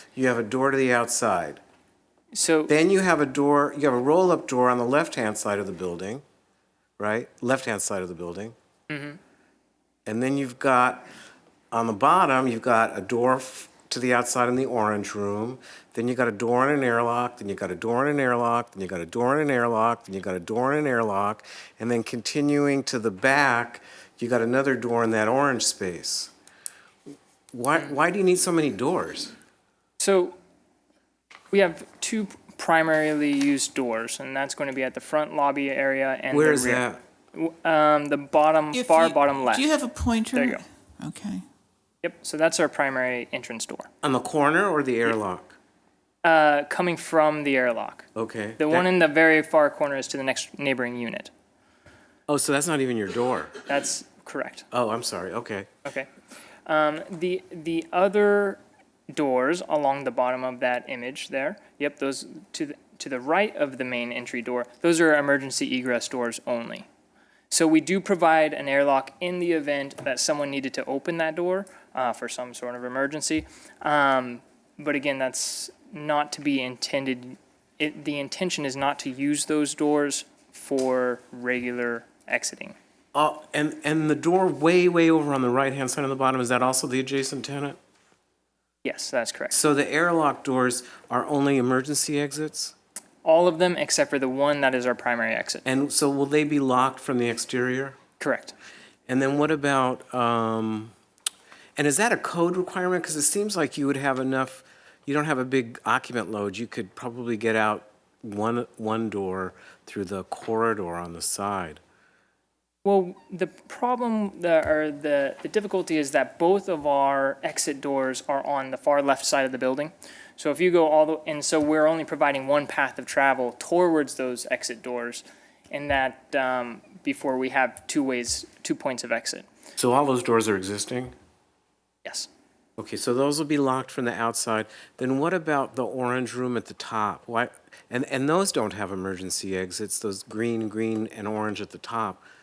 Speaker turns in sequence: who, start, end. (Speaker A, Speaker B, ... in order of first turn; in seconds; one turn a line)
Speaker A: 0.1-1.6
Speaker B: 2.3-2.7
Speaker A: 2.7-6.2
Speaker A: 7.0-8.5
Speaker B: 8.9-9.2
Speaker A: 10.1-11.1
Speaker A: 11.7-26.3
Speaker A: 27.5-29.3
Speaker B: 30.0-30.4
Speaker B: 31.5-39.7
Speaker A: 36.3-37.0
Speaker C: 38.7-41.4
Speaker B: 40.3-40.6
Speaker B: 42.0-43.9
Speaker A: 44.0-45.5
Speaker B: 46.2-48.1
Speaker A: 48.1-48.9
Speaker B: 48.6-51.3
Speaker A: 52.3-53.5
Speaker B: 53.6-54.6
Speaker A: 54.7-55.7
Speaker B: 55.8-56.1
Speaker B: 56.6-58.6
Speaker B: 59.1-66.8
Speaker B: 67.5-82.7
Speaker A: 83.1-87.8
Speaker B: 88.8-89.6
Speaker A: 89.5-92.7
Speaker B: 93.2-95.6
Speaker A: 95.6-98.0
Speaker B: 98.2-98.5
Speaker A: 99.1-100.9
Speaker A: 101.8-111.8
Speaker B: 112.8-129.4
Speaker A: 129.8-131.1
Speaker A: 132.8-142.2